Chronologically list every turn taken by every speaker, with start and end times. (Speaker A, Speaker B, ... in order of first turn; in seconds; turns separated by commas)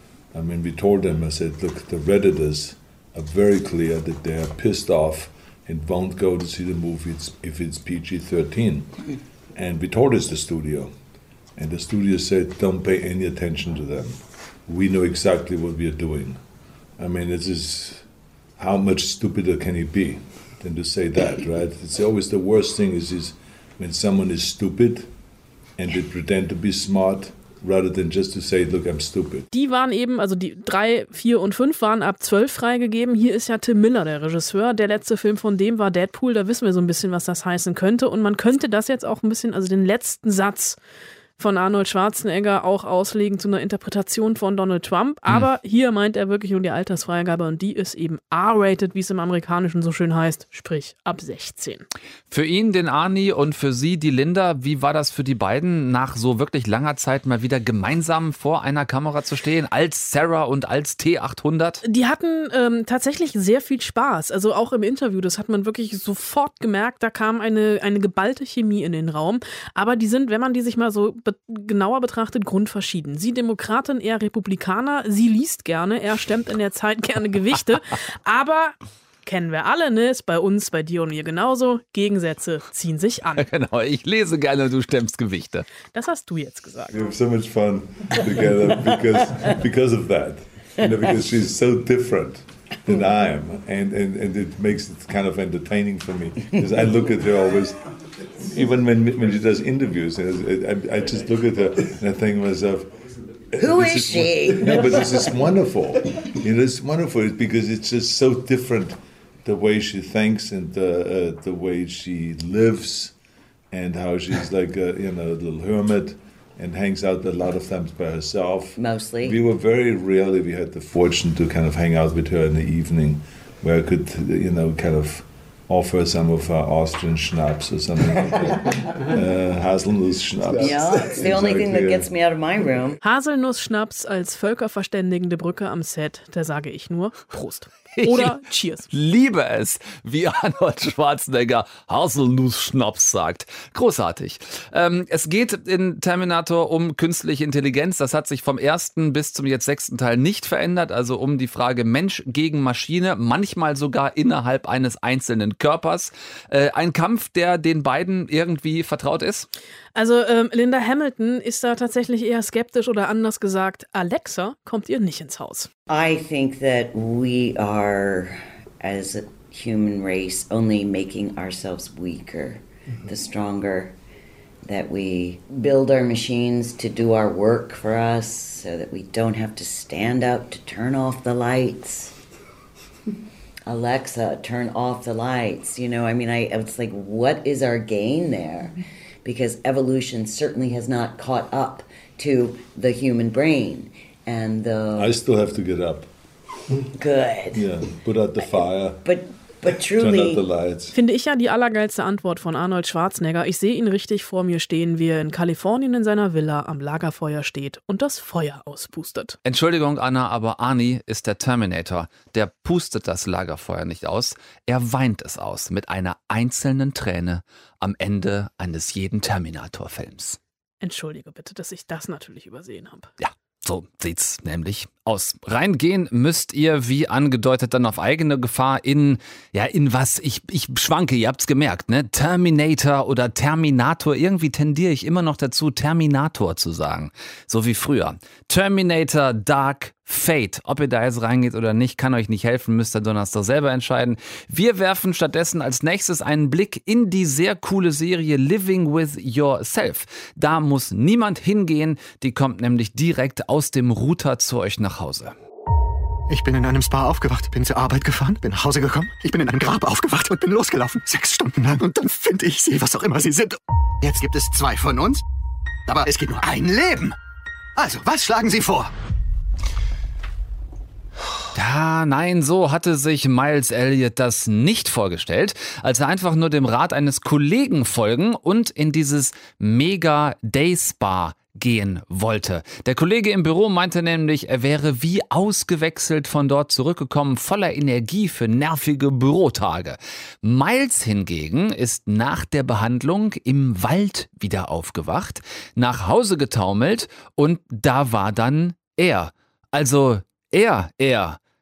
Speaker A: 0.3-8.9, Speaker A: 9.6-10.9, Speaker A: 11.6-16.4, Speaker A: 17.0-18.1, Speaker A: 18.6-25.1, Speaker A: 25.8-29.5, Speaker B: 29.5-40.8, Speaker B: 41.4-51.9, Speaker C: 52.3-61.8, Speaker B: 61.9-83.5, Speaker C: 83.4-85.7, Speaker B: 85.9-87.0, Speaker A: 86.9-97.8, Speaker A: 98.5-102.9, Speaker A: 103.5-113.1, Speaker D: 103.6-105.4, Speaker A: 113.7-132.1, Speaker D: 118.8-119.4, Speaker D: 130.6-133.0, Speaker B: 133.0-138.9, Speaker C: 137.9-138.4, Speaker C: 138.9-159.5, Speaker B: 159.9-165.7, Speaker D: 165.9-173.9, Speaker D: 174.7-182.1, Speaker D: 183.7-195.2, Speaker A: 194.9-196.1, Speaker D: 196.9-197.7, Speaker A: 197.5-199.1, Speaker D: 199.0-200.4, Speaker A: 199.9-201.0, Speaker B: 200.9-209.4, Speaker C: 209.4-220.4, Speaker B: 220.8-223.1, Speaker C: 223.2-255.4, Speaker E: 256.3-265.2, Speaker E: 265.9-267.2, Speaker E: 267.8-268.9, Speaker C: 271.6-301.4